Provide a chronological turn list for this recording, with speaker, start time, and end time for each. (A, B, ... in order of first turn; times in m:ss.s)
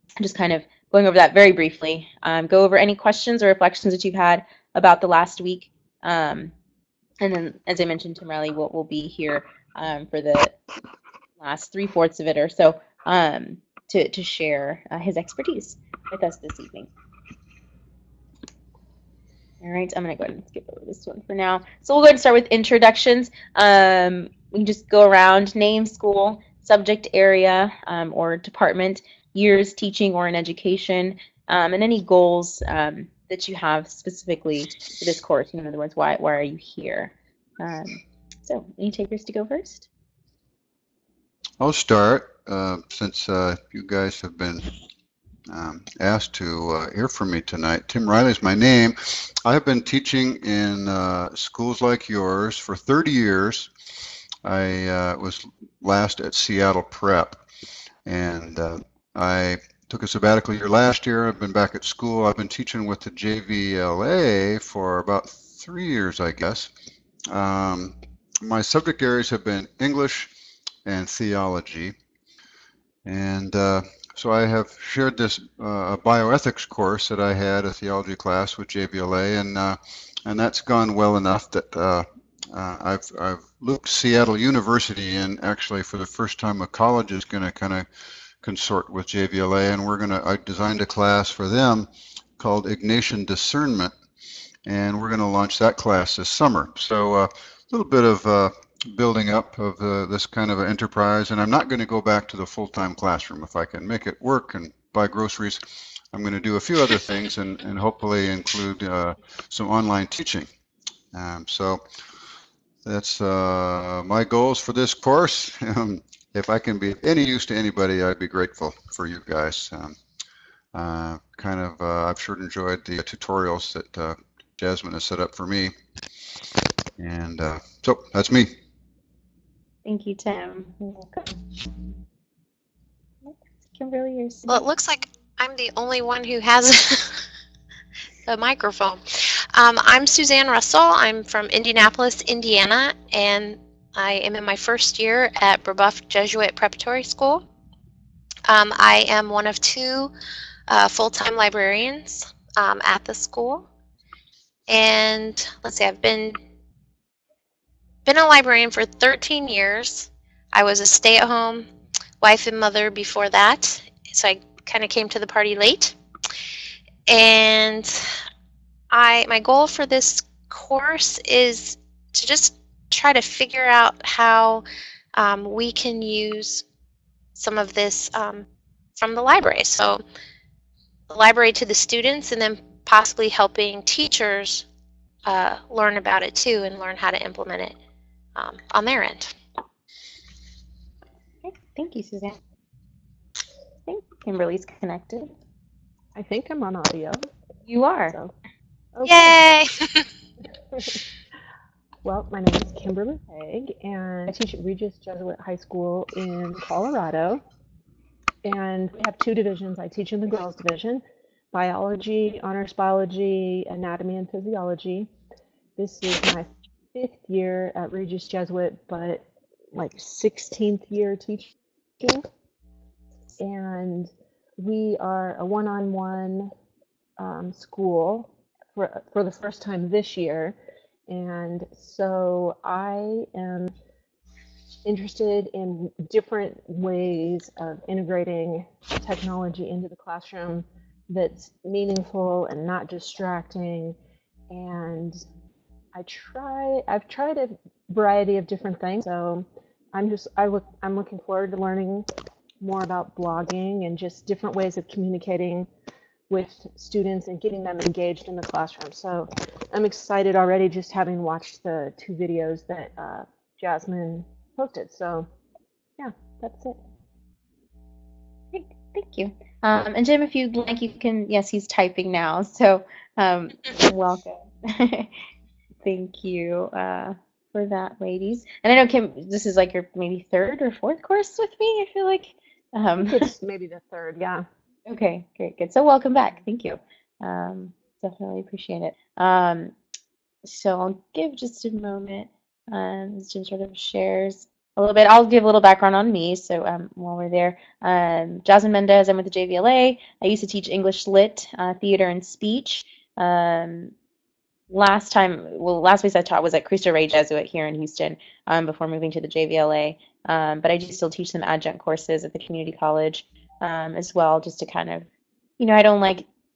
0:00.2-0:06.5 A
0:07.2-0:10.6 A
0:11.4-0:16.9 A
0:19.6-0:39.9 A
0:41.6-0:44.7 B
0:45.5-0:53.7 B
0:54.4-0:57.4 B
0:58.0-1:06.7 B
1:07.3-1:10.3 B
1:10.8-1:11.9 B
1:13.0-1:27.8 B
1:28.4-1:33.9 B
1:34.6-1:45.6 B
1:46.1-1:50.5 B
1:51.1-1:51.8 B
1:52.8-2:00.0 B
2:00.7-2:05.7 B
2:07.0-2:08.5 B
2:09.8-2:11.4 A
2:13.2-2:14.6 A
2:14.5-2:17.2 C
2:18.2-2:27.4 C
2:28.4-2:30.1 C
2:30.7-2:33.7 C
2:34.7-2:36.4 C
2:38.0-2:41.7 C
2:42.2-2:46.0 C
2:47.1-2:48.1 C
2:48.9-2:56.6 C
2:57.4-2:58.4 C
2:59.0-3:00.0 C
3:01.1-3:04.6 C
3:05.2-3:07.7 C
3:08.3-3:09.3 C
3:11.4-3:12.4 A
3:13.8-3:15.3 A
3:16.1-3:17.2 D
3:17.7-3:18.2 A
3:18.9-3:19.4 D
3:19.0-3:20.1 C
3:22.0-3:27.4 D
3:28.4-3:31.0 D
3:31.5-3:35.1 D
3:35.8-3:42.2 D
3:43.4-3:46.5 D
3:47.2-3:50.6 D
3:51.1-3:53.7 D
3:54.8-4:04.0 D
4:04.5-4:05.2 D
4:05.9-4:12.1 D
4:12.6-4:15.7 D
4:16.3-4:25.3 D
4:26.0-4:26.8 D
4:28.5-4:35.1 A
4:35.8-4:43.3 A
4:43.0-4:44.4 D
4:44.9-4:49.7 A
4:50.4-5:03.9 A
5:04.7-5:15.1 A
5:15.6-5:16.2 A